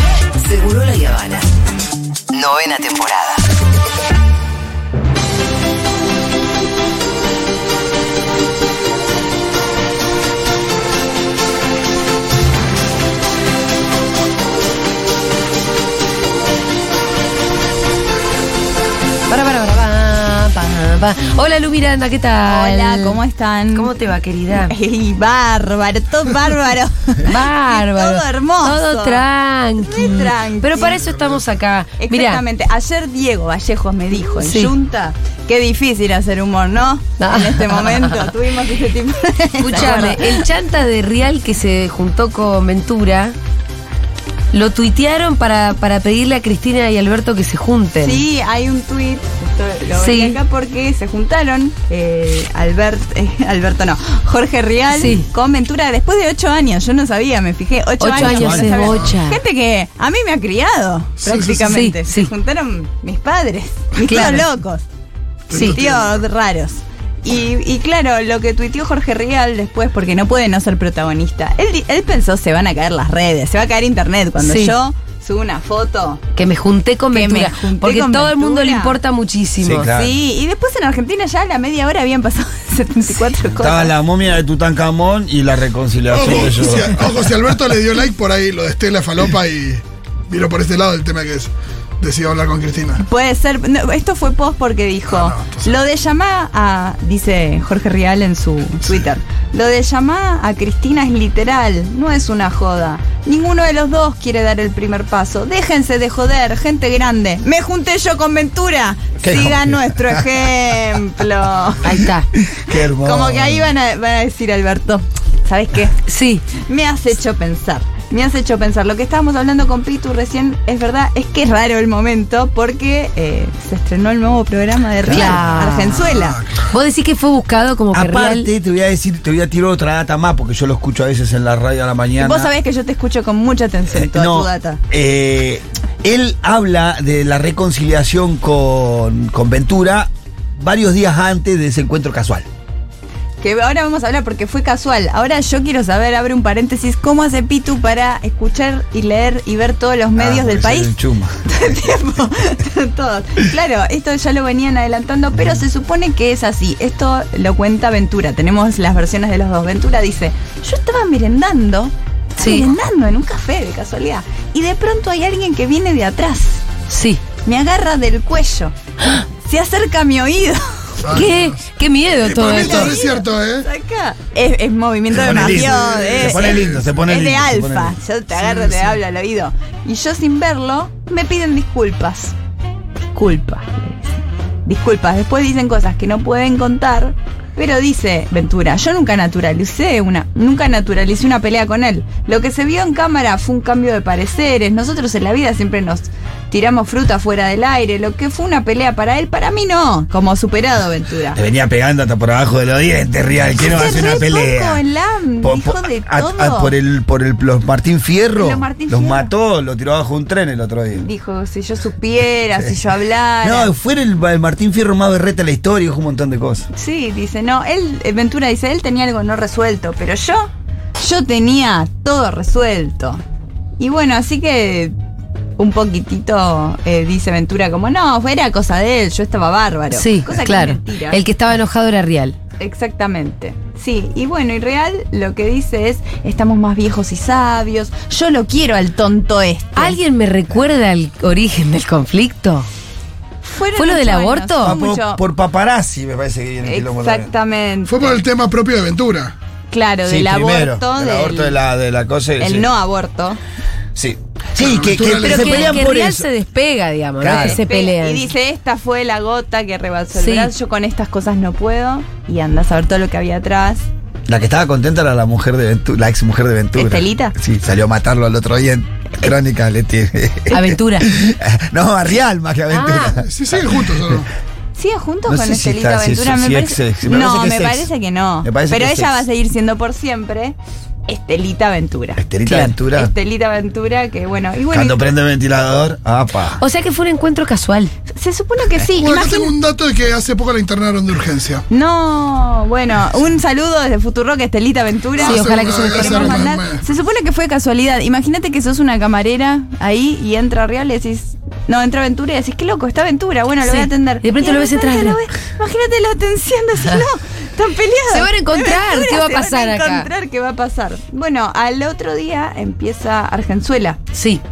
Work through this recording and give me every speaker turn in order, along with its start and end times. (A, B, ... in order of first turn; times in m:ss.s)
0:00.4-0:01.5 A
0:02.3-0:03.4 A
0:19.3-0:23.2 B
0:22.5-0:23.9 C
0:23.7-0:24.7 B
0:24.5-0:29.2 C
0:27.2-0:32.4 B
0:29.8-0:31.0 C
0:31.0-0:31.4 D
0:32.0-0:40.5 C
0:34.4-0:34.7 B
0:37.2-0:38.2 B
0:39.6-0:43.4 B
0:44.5-0:48.2 B
0:48.0-1:04.8 C
0:50.0-0:50.4 B
0:54.9-0:55.3 B
0:58.0-0:59.4 B
0:58.2-0:58.9 E
1:01.2-1:01.8 D
1:01.6-1:02.3 B
1:04.1-1:04.5 B
1:04.1-1:04.4 D
1:05.5-1:06.2 D
1:05.5-1:05.8 B
1:05.5-1:16.2 C
1:14.4-1:14.8 B
1:16.4-1:19.9 B
1:17.1-1:19.0 C
1:19.6-1:20.2 E
1:19.9-1:23.9 C
1:23.5-1:27.3 E
1:26.1-1:33.0 D
1:33.0-1:52.0 C
1:35.1-1:35.8 D
1:49.2-1:50.2 E
1:51.8-1:52.3 B
1:52.4-1:53.7 E
1:52.7-1:56.0 C
1:56.1-1:56.4 B
1:56.5-2:06.4 C
2:05.0-2:05.6 E
2:05.1-2:06.0 B
2:06.0-2:06.7 D
2:06.7-2:08.5 B
2:07.9-2:12.5 E
2:12.2-2:14.8 C
2:13.9-2:22.5 E
2:23.4-2:46.6 C
2:30.2-2:31.8 E
2:35.3-2:35.6 E
2:42.4-2:42.7 B
2:46.9-2:47.2 B
2:47.4-2:48.8 C
2:49.4-2:51.2 C
2:51.0-2:51.6 D
2:51.1-2:53.0 B
2:52.2-2:53.7 D
2:52.4-3:02.4 C
2:55.1-2:58.0 E
2:55.2-2:56.8 D
2:58.4-2:58.9 D
3:03.1-3:21.4 C
3:21.3-3:24.8 E
3:23.6-3:26.7 C
3:25.4-3:31.1 E
3:28.4-3:29.3 C
3:31.0-3:33.7 C
3:33.4-3:36.7 E
3:36.7-3:43.2 C
3:43.8-3:44.9 C
3:45.6-3:51.2 C
3:49.9-3:52.4 B
3:52.6-4:00.0 C
3:59.8-4:02.7 B
4:03.4-4:05.2 C
4:03.8-4:04.8 B
4:04.6-4:07.3 E
4:06.6-4:08.2 C
4:07.8-4:09.3 D
4:09.7-4:11.6 C
4:10.1-4:12.7 E
4:12.4-4:13.4 C
4:14.0-4:16.3 E
4:14.6-4:15.8 D
4:15.2-4:18.3 B
4:17.2-4:17.6 E
4:17.4-4:23.8 C
4:20.2-4:20.5 B
4:24.3-4:34.2 E
4:26.8-4:27.4 C
4:30.5-4:31.1 B
4:32.7-4:33.2 B
4:33.2-4:34.3 D
4:34.8-4:40.6 C
4:35.3-4:37.9 E
4:38.4-4:39.2 E
4:41.1-4:45.1 C
4:42.2-4:43.1 E
4:44.7-4:46.6 E
4:46.6-4:47.9 B
4:48.1-4:49.5 C
4:49.0-4:51.6 D
4:51.7-5:14.0 C
4:55.2-4:56.8 D
4:55.2-4:56.5 B
5:03.7-5:05.2 B
5:08.1-5:10.1 B
5:14.1-5:14.4 B